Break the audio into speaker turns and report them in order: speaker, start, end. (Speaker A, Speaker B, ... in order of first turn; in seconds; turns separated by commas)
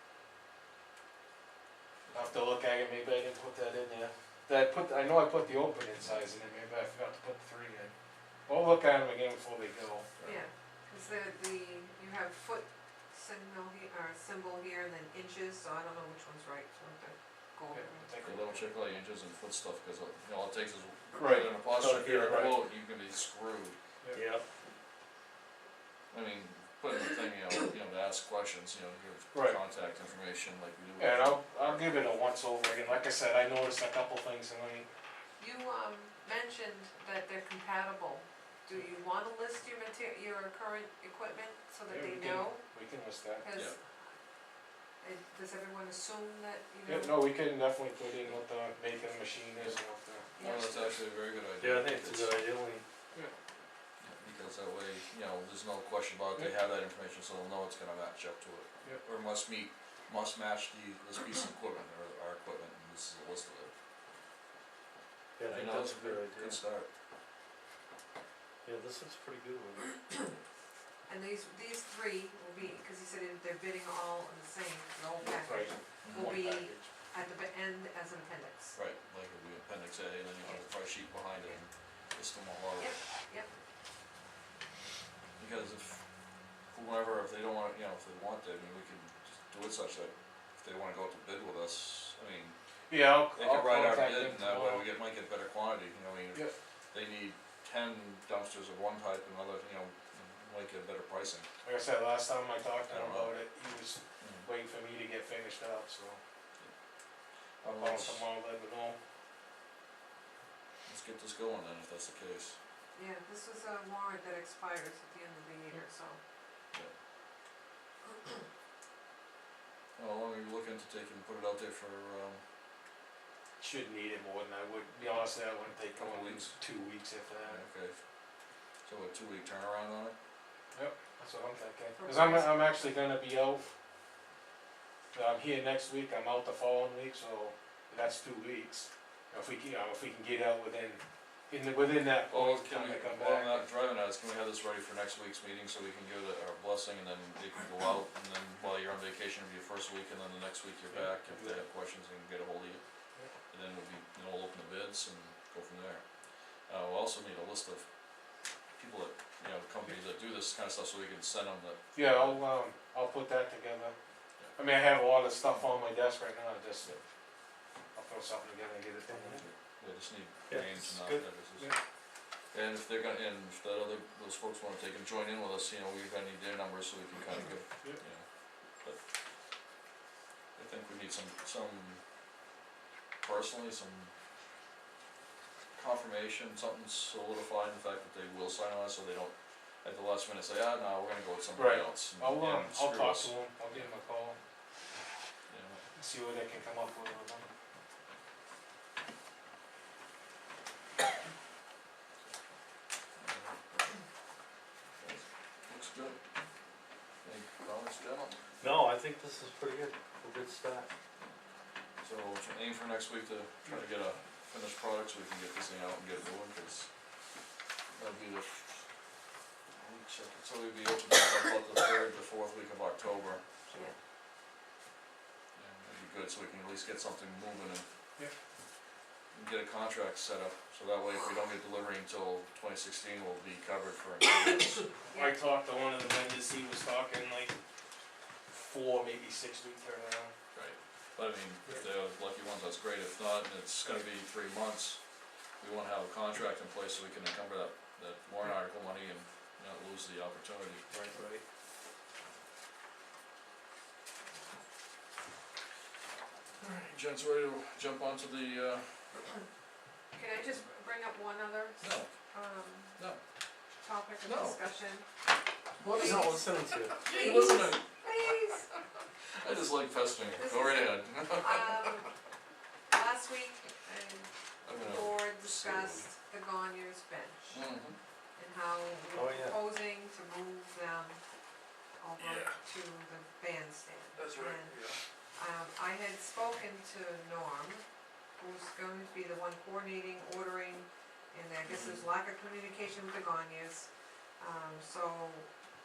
Speaker A: 2.1-2.3, Speaker B: 2.1-7.9, Speaker B: 8.5-10.1, Speaker C: 10.2-18.1, Speaker B: 17.7-18.8, Speaker A: 18.2-23.8, Speaker B: 21.2-22.5, Speaker D: 21.8-22.4, Speaker D: 24.1-24.4, Speaker A: 26.1-32.1, Speaker B: 29.3-29.6, Speaker B: 31.0-34.9, Speaker C: 35.4-42.6, Speaker B: 41.9-43.4, Speaker C: 43.4-44.1, Speaker C: 45.0-47.2, Speaker B: 46.9-50.3, Speaker C: 50.4-51.0, Speaker A: 50.4-52.4, Speaker D: 51.6-52.8, Speaker A: 54.0-63.7, Speaker D: 65.4-66.6, Speaker A: 65.5-66.9, Speaker D: 68.6-70.0, Speaker C: 71.1-78.8, Speaker B: 75.2-76.9, Speaker A: 76.0-76.4, Speaker A: 78.8-83.0, Speaker C: 80.4-81.6, Speaker C: 82.8-83.5, Speaker A: 85.4-92.6, Speaker B: 92.9-94.9, Speaker A: 93.3-101.5, Speaker B: 101.6-106.2, Speaker A: 102.9-103.3, Speaker A: 104.2-104.5, Speaker A: 107.6-108.2, Speaker B: 107.7-109.0, Speaker A: 110.8-112.6, Speaker C: 112.9-116.2, Speaker A: 120.0-122.4, Speaker B: 123.6-127.6, Speaker A: 126.0-126.6, Speaker A: 127.4-128.0, Speaker A: 128.8-130.1, Speaker B: 130.7-133.7, Speaker C: 132.0-132.5, Speaker B: 135.1-143.7, Speaker A: 142.3-152.8, Speaker B: 150.9-151.6, Speaker A: 153.5-157.9, Speaker A: 158.7-162.4, Speaker B: 161.9-163.9, Speaker B: 164.5-166.9, Speaker B: 167.9-169.5, Speaker D: 169.1-169.4, Speaker A: 169.4-171.7, Speaker D: 170.5-171.2, Speaker A: 172.5-179.0, Speaker A: 180.6-182.0, Speaker A: 183.2-184.1, Speaker A: 185.7-193.9, Speaker B: 191.6-194.4, Speaker A: 195.5-195.8, Speaker B: 195.9-197.5, Speaker A: 203.2-203.6, Speaker A: 205.0-206.2, Speaker A: 207.2-208.4, Speaker D: 208.6-210.9, Speaker A: 212.0-216.9, Speaker A: 217.9-218.8, Speaker A: 219.8-223.5, Speaker A: 225.5-227.8, Speaker A: 229.3-234.9, Speaker B: 235.1-237.5, Speaker B: 238.5-240.3, Speaker A: 240.5-245.0, Speaker A: 245.6-250.8, Speaker B: 250.9-251.1, Speaker D: 251.1-251.4, Speaker A: 256.6-259.2, Speaker C: 260.1-263.0, Speaker A: 261.8-262.1, Speaker C: 263.8-265.1, Speaker A: 264.2-264.6, Speaker A: 265.8-268.3, Speaker C: 265.8-268.7, Speaker D: 265.9-267.0, Speaker A: 269.3-272.1, Speaker C: 270.3-272.1, Speaker C: 272.9-277.7, Speaker A: 274.6-276.1, Speaker A: 277.5-278.0, Speaker C: 278.4-281.2, Speaker D: 279.1-279.6, Speaker C: 282.0-284.8, Speaker A: 282.2-282.6, Speaker A: 284.1-285.0, Speaker C: 285.3-287.8, Speaker C: 288.4-295.5, Speaker A: 291.6-292.0